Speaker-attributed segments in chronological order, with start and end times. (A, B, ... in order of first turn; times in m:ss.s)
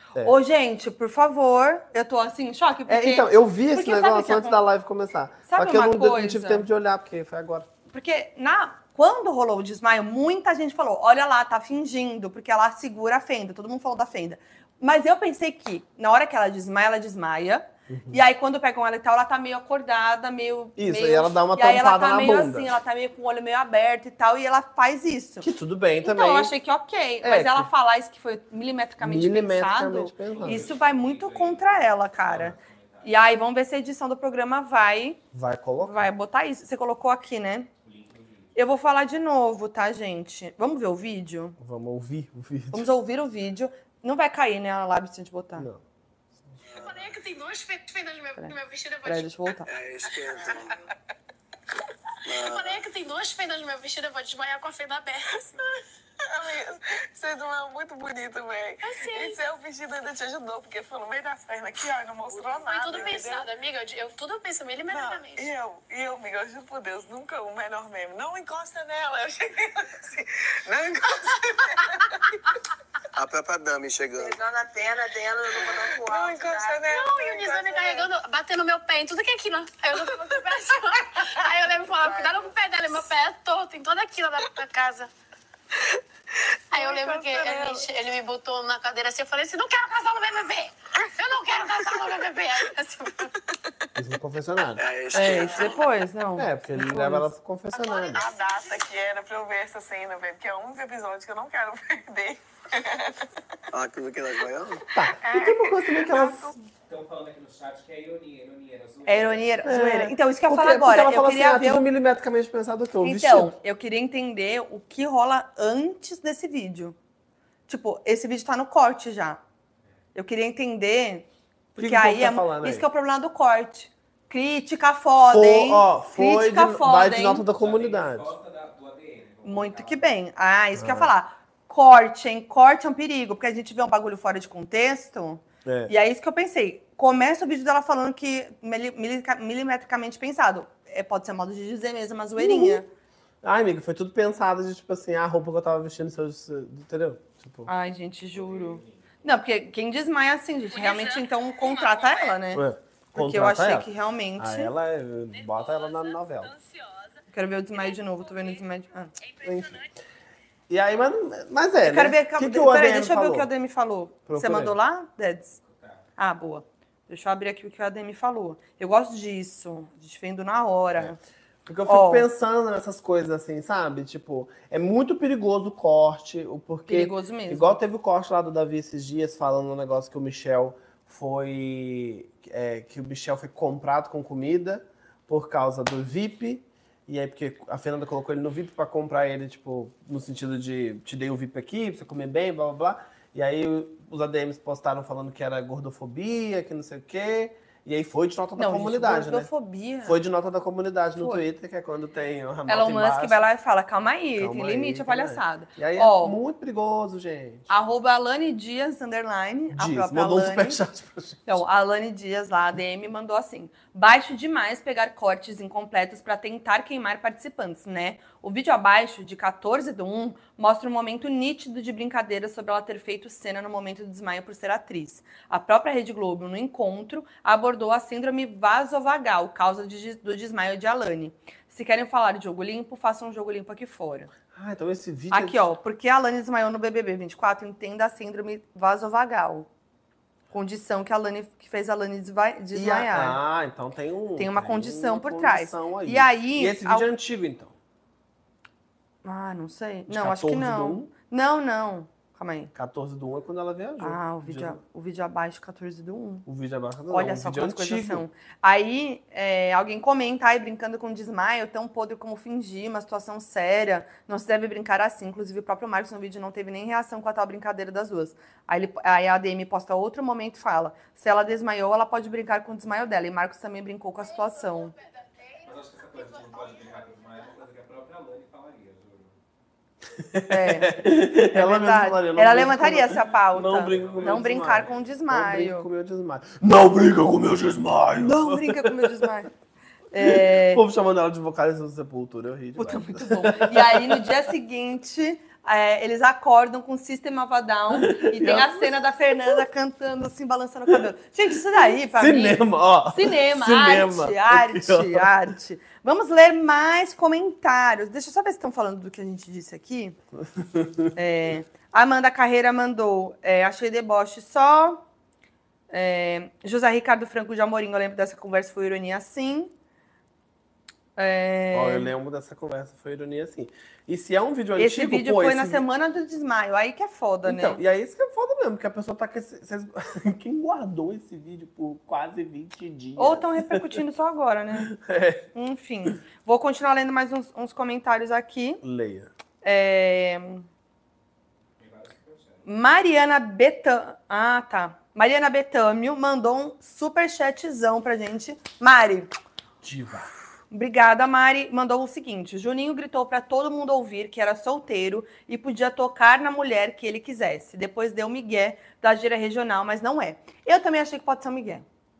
0:00.2-0:04.6 A
0:02.9-0:07.7 B
0:05.5-0:06.7 A
0:07.9-0:25.5 A
0:17.9-0:18.2 B
0:20.8-0:22.7 B
0:25.4-0:26.5 B
0:26.0-0:35.2 A
0:27.2-0:27.7 B
0:29.0-0:30.7 B
0:30.3-0:33.1 C
0:35.3-0:36.0 B
0:35.8-0:37.7 A
0:37.8-0:38.5 C
0:38.6-0:41.6 A
0:41.6-0:42.9 B
0:42.7-0:45.7 A
0:45.6-0:45.8 B
0:46.7-0:49.3 D
0:46.7-0:47.0 E
0:48.4-0:49.7 A
0:49.7-0:50.8 E
0:52.3-0:52.8 E
0:52.3-0:55.5 D
0:56.3-1:03.5 F
0:58.8-0:59.4 D
1:02.4-1:05.5 D
1:04.9-1:12.4 F
1:13.1-1:14.4 E
1:14.2-1:16.8 G
1:15.8-1:18.1 F
1:16.8-1:25.1 D
1:26.7-1:33.4 D
1:34.0-1:34.8 B
1:34.8-1:35.9 E
1:35.1-1:37.3 A
1:35.2-1:35.7 F
1:36.4-1:38.2 B
1:37.7-1:43.3 F
1:43.7-1:44.9 E
1:44.8-1:46.6 B
1:45.1-1:46.5 F
1:46.9-1:49.5 C
1:49.1-1:51.9 A
1:49.6-1:53.5 B
1:53.0-1:57.0 A
1:57.7-1:59.4 A
2:00.2-2:01.3 A
2:01.8-2:02.8 B
2:01.8-2:07.4 A
2:05.3-2:08.3 B
2:07.5-2:10.1 C
2:09.4-2:22.9 A
2:10.8-2:11.1 B
2:15.6-2:15.9 B
2:22.4-2:22.8 B
2:23.4-2:27.7 B
2:27.7-2:34.7 A
2:28.3-2:29.1 C
2:30.7-2:32.3 D
2:32.5-2:36.5 B
2:35.4-2:37.1 D
2:37.3-2:39.1 A
2:39.2-2:39.6 D
2:39.4-2:39.8 B
2:40.7-2:43.5 B
2:41.8-2:45.6 A
2:44.3-2:44.8 B
2:45.6-2:46.0 C
2:46.2-2:51.2 A
2:51.7-3:19.5 B
2:51.9-2:52.3 A
2:56.9-2:57.8 A
3:18.6-3:20.2 A
3:20.0-3:23.4 B
3:21.2-3:21.4 A
3:22.7-3:26.4 A
3:24.4-3:27.7 B
3:27.7-3:30.8 A
3:29.8-3:31.5 B
3:31.5-3:54.3 A
3:54.5-3:55.6 B
3:55.3-3:59.7 A
4:00.5-4:03.4 A
4:02.7-4:07.8 B
4:04.4-4:07.1 A
4:09.2-4:12.7 A
4:10.1-4:11.1 B
4:12.8-4:14.8 B
4:14.0-4:16.5 A
4:16.5-4:18.2 B
4:17.1-4:34.9 A
4:35.6-4:39.4 C
4:40.2-4:49.3 B
4:40.5-4:45.9 A
4:43.8-4:45.1 C
4:48.2-4:49.5 A
4:50.1-4:50.8 A
4:50.2-4:54.3 B
4:52.8-5:10.2 A
4:57.9-4:59.6 B
5:01.8-5:05.3 B
5:10.6-5:11.1 B
5:11.2-5:15.0 A
5:15.9-5:19.7 A
5:21.2-5:22.1 A
5:21.7-5:25.8 B
5:24.8-5:27.8 A
5:27.4-5:34.0 B
5:33.2-5:34.9 A
5:34.8-5:35.5 B
5:35.5-5:38.8 A
5:38.8-5:39.3 B
5:39.6-5:40.7 A
5:41.8-5:42.6 C
5:42.6-5:49.3 A
5:49.8-5:50.3 B
5:50.7-6:01.8 A